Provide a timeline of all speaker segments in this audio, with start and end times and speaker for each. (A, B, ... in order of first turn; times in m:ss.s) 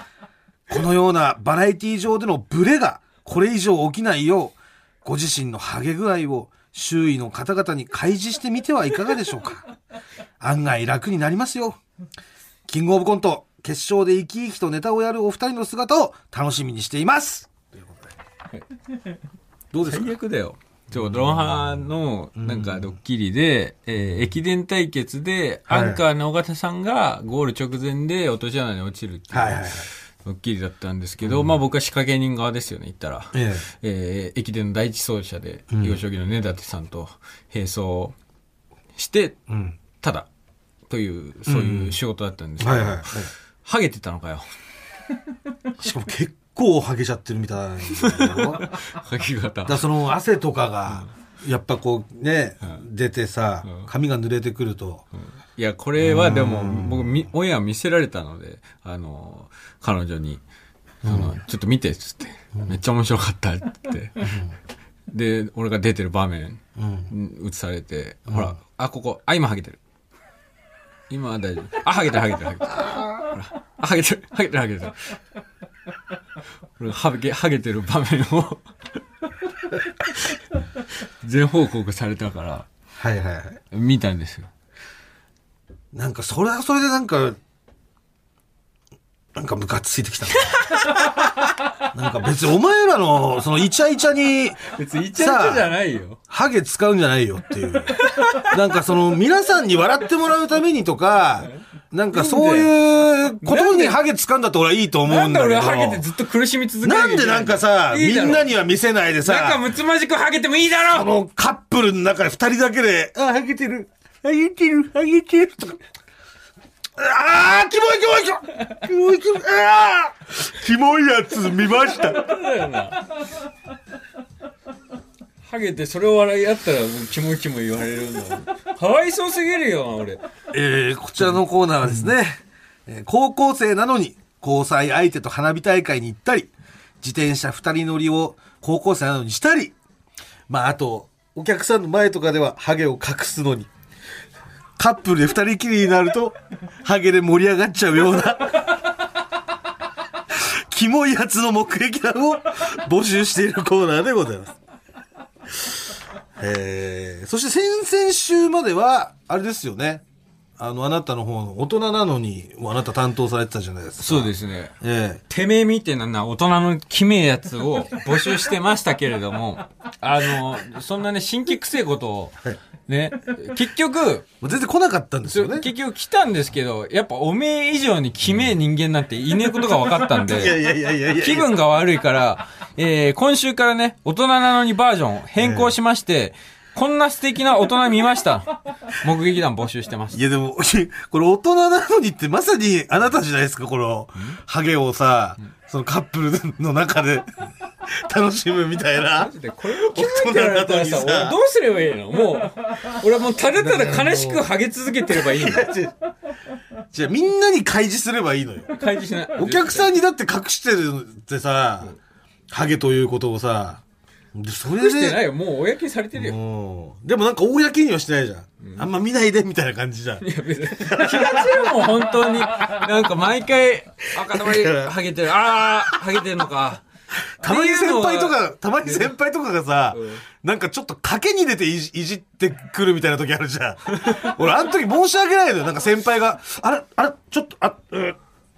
0:00.7-0:09.7 A
0:10.4-0:11.8 A
0:12.7-0:18.1 A
0:19.7-0:20.1 A
0:19.8-0:38.2 B
0:22.4-0:23.0 A
0:25.7-0:26.0 A
0:29.3-0:29.9 A
0:31.2-0:31.6 A
0:33.3-0:33.7 A
0:35.7-0:36.0 A
0:39.0-0:39.4 B
0:39.5-0:39.8 A
0:40.0-0:40.3 B
0:40.9-0:44.5 B
0:41.5-0:42.0 A
0:42.6-0:43.3 A
0:45.8-0:48.7 A
0:47.9-0:49.8 B
0:49.6-0:55.0 A
0:53.6-0:53.9 B
0:55.2-1:00.4 B
0:56.0-0:57.3 A
1:01.0-1:04.4 B
1:01.0-1:01.3 A
1:04.2-1:04.5 A
1:05.1-1:09.8 B
1:06.8-1:07.1 A
1:08.3-1:08.5 A
1:11.1-1:15.1 B
1:16.8-1:18.6 B
1:20.0-1:20.4 B
1:21.0-1:22.7 B
1:23.0-1:23.6 A
1:23.7-1:24.5 B
1:25.9-1:27.4 A
1:29.3-1:31.3 A
1:30.4-1:31.9 B
1:31.9-1:34.6 A
1:34.7-1:36.2 B
1:35.1-1:35.7 A
1:36.3-1:46.1 A
1:37.9-1:38.5 B
1:41.4-1:42.7 B
1:43.4-1:44.0 B
1:45.0-1:48.5 B
1:46.8-1:49.6 A
1:49.2-1:51.1 B
1:50.8-1:55.8 A
1:57.0-2:02.3 A
2:01.8-2:03.2 B
2:05.4-2:10.2 B
2:10.5-2:19.8 A
2:11.8-2:12.1 B
2:20.5-2:23.7 A
2:24.8-2:28.9 A
2:30.3-2:34.5 A
2:36.4-2:40.0 A
2:40.6-2:45.2 A
2:44.0-2:44.8 B
2:45.3-2:54.3 B
2:54.4-2:55.7 A
2:55.3-3:00.6 B
3:00.1-3:01.5 A
3:01.1-3:10.2 B
3:05.4-3:05.7 A
3:10.1-3:17.3 A
3:17.8-3:21.4 A
3:19.1-3:25.7 B
3:23.5-3:24.4 A
3:25.1-3:25.9 A
3:26.9-3:28.7 A
3:28.7-3:29.9 B
3:29.3-3:31.9 A
3:32.5-3:33.8 A
3:34.3-3:35.2 A
3:34.7-3:36.4 B
3:36.1-3:40.2 A
3:38.6-3:38.9 B
3:40.2-3:46.8 B
3:40.8-3:41.7 A
3:44.2-3:44.9 A
3:47.4-3:58.2 A
3:47.4-3:49.1 B
3:49.9-3:50.2 B
3:53.9-3:54.4 B